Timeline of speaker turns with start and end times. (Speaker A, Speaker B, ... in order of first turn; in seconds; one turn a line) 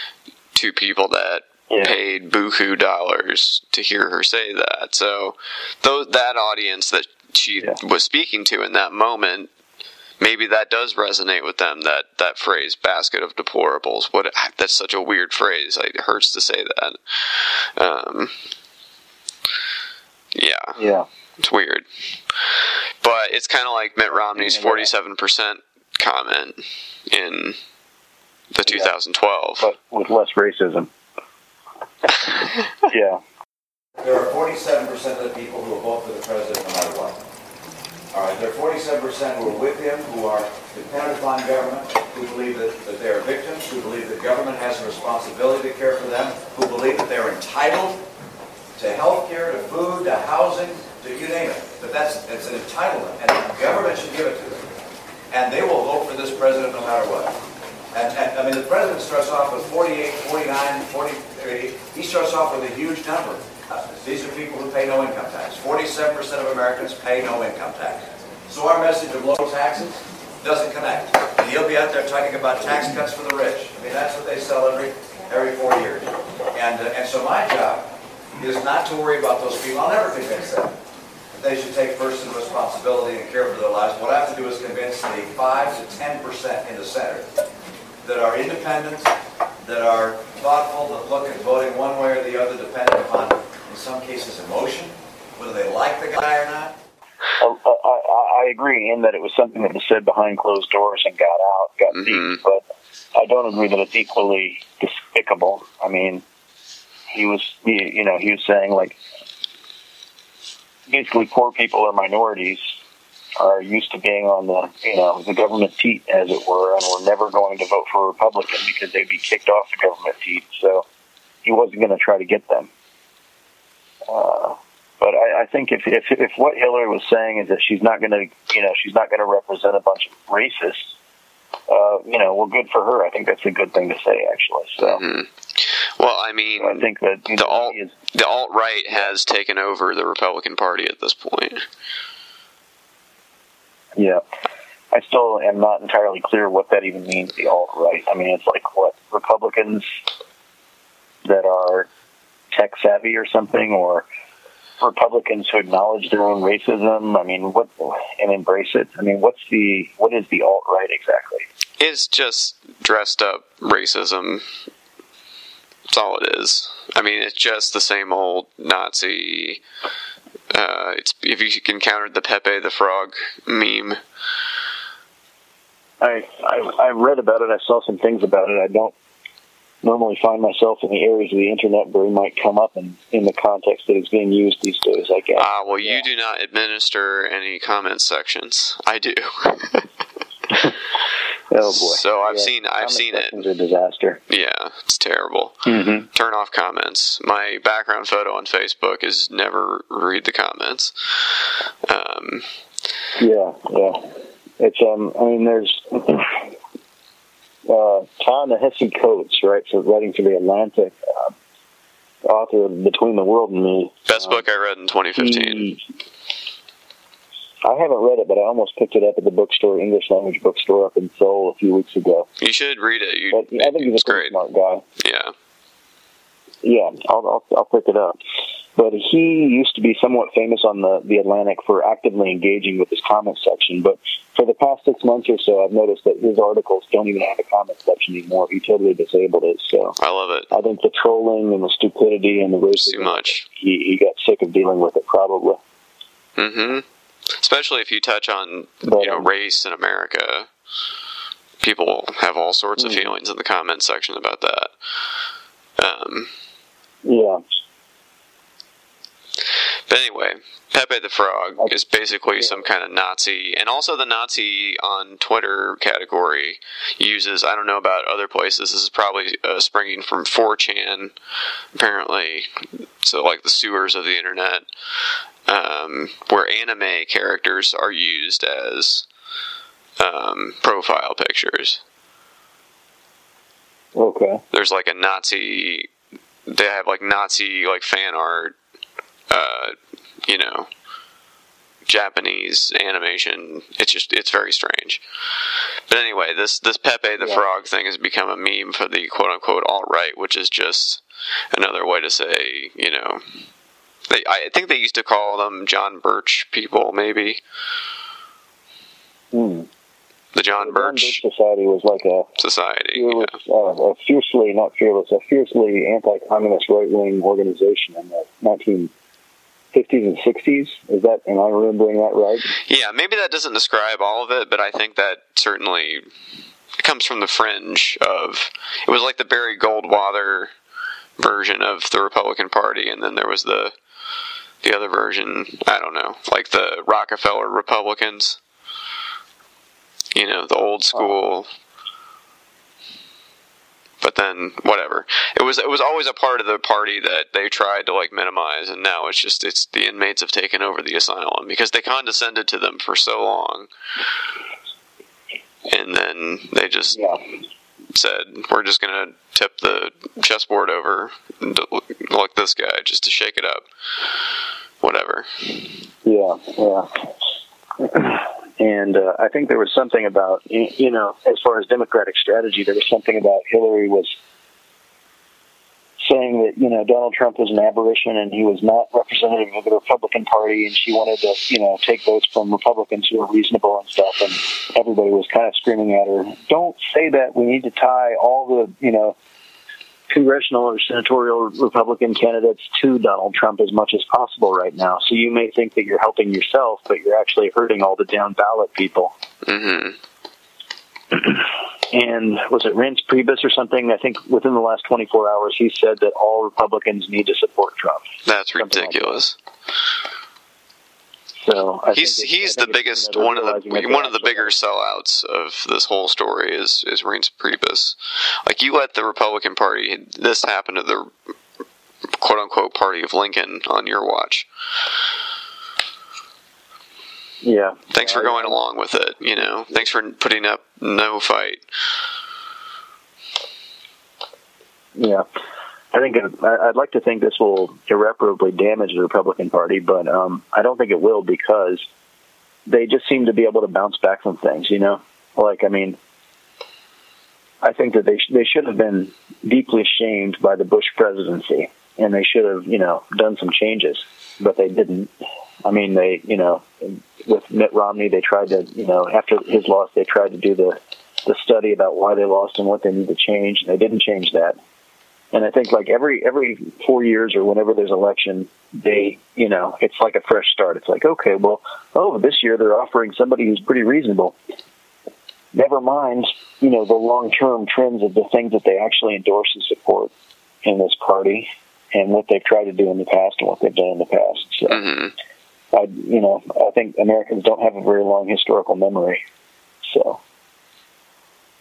Speaker A: 0.5-9.5
Speaker B: 1.7-2.0
Speaker A: 10.2-18.3
Speaker A: 20.3-20.8
Speaker B: 20.8-21.1
Speaker A: 21.4-27.6
Speaker B: 24.2-24.9
Speaker A: 28.5-29.7
Speaker B: 28.7-28.9
Speaker B: 29.6-30.9
Speaker B: 32.1-33.2
Speaker C: 34.0-37.2
Speaker C: 38.1-48.0
Speaker C: 48.8-54.7
Speaker C: 55.3-57.3
Speaker C: 57.9-80.7
Speaker C: 81.3-87.3
Speaker C: 88.0-96.7
Speaker B: 97.4-102.6
Speaker B: 103.1-106.2
Speaker B: 107.1-109.0
Speaker B: 110.9-112.7
Speaker B: 113.4-120.8
Speaker B: 121.4-122.7
Speaker B: 124.1-130.9
Speaker B: 131.7-135.0
Speaker A: 134.8-141.6
Speaker B: 136.6-137.9
Speaker B: 143.9-144.2
Speaker B: 144.9-149.9
Speaker B: 151.2-151.9
Speaker B: 152.5-154.1
Speaker B: 154.8-161.4
Speaker A: 161.8-164.4
Speaker A: 165.9-169.6
Speaker A: 170.5-174.0
Speaker B: 176.0-178.9
Speaker B: 179.8-186.1
Speaker A: 185.4-189.9
Speaker B: 191.5-194.2
Speaker A: 191.7-193.4
Speaker A: 194.3-202.5
Speaker B: 195.7-196.1
Speaker B: 203.2-206.4
Speaker B: 207.7-211.3
Speaker B: 212.2-214.4
Speaker A: 214.1-215.7
Speaker B: 215.2-215.8
Speaker B: 217.6-222.3
Speaker A: 222.4-224.3
Speaker B: 223.3-224.8
Speaker A: 225.0-225.3
Speaker B: 226.6-228.2
Speaker B: 228.8-239.9
Speaker A: 240.0-240.5
Speaker B: 240.5-245.6
Speaker A: 242.8-243.4
Speaker A: 246.4-246.8
Speaker A: 247.3-250.5
Speaker B: 248.8-249.3
Speaker A: 251.6-254.7
Speaker B: 252.8-253.1
Speaker A: 255.8-256.3
Speaker B: 257.0-257.4
Speaker A: 259.9-271.1
Speaker A: 271.7-274.7
Speaker A: 275.5-279.1
Speaker A: 280.0-281.8
Speaker B: 283.9-284.4
Speaker A: 284.5-285.9
Speaker A: 286.5-288.5
Speaker A: 289.3-290.7
Speaker A: 291.9-295.0
Speaker A: 295.9-301.0
Speaker B: 297.2-297.4
Speaker A: 301.5-303.2
Speaker A: 304.1-307.4
Speaker B: 309.3-309.7
Speaker A: 310.3-311.2
Speaker B: 310.6-312.3
Speaker A: 312.4-313.3
Speaker B: 312.9-318.9
Speaker B: 319.7-322.5
Speaker A: 322.6-326.1
Speaker A: 326.8-330.5
Speaker A: 331.2-333.7
Speaker A: 334.6-338.4
Speaker A: 340.1-341.5
Speaker A: 344.0-353.7
Speaker A: 355.7-357.0
Speaker B: 356.9-357.2
Speaker A: 357.9-364.2
Speaker A: 364.8-365.3
Speaker B: 366.0-366.9
Speaker B: 367.8-374.1
Speaker B: 376.0-389.1
Speaker B: 390.1-399.1
Speaker A: 399.4-399.9
Speaker B: 401.1-409.2
Speaker A: 408.2-409.4
Speaker B: 411.4-414.8
Speaker A: 411.9-421.1
Speaker A: 422.1-424.5
Speaker B: 427.4-428.6
Speaker A: 427.9-431.6
Speaker B: 429.4-429.9
Speaker B: 434.9-435.2
Speaker B: 435.9-441.8
Speaker B: 442.6-446.0
Speaker B: 447.6-455.1
Speaker B: 455.6-464.6
Speaker B: 465.3-474.4
Speaker B: 475.5-480.1
Speaker B: 480.6-484.8
Speaker A: 484.7-485.1
Speaker B: 485.7-489.2
Speaker B: 489.8-490.2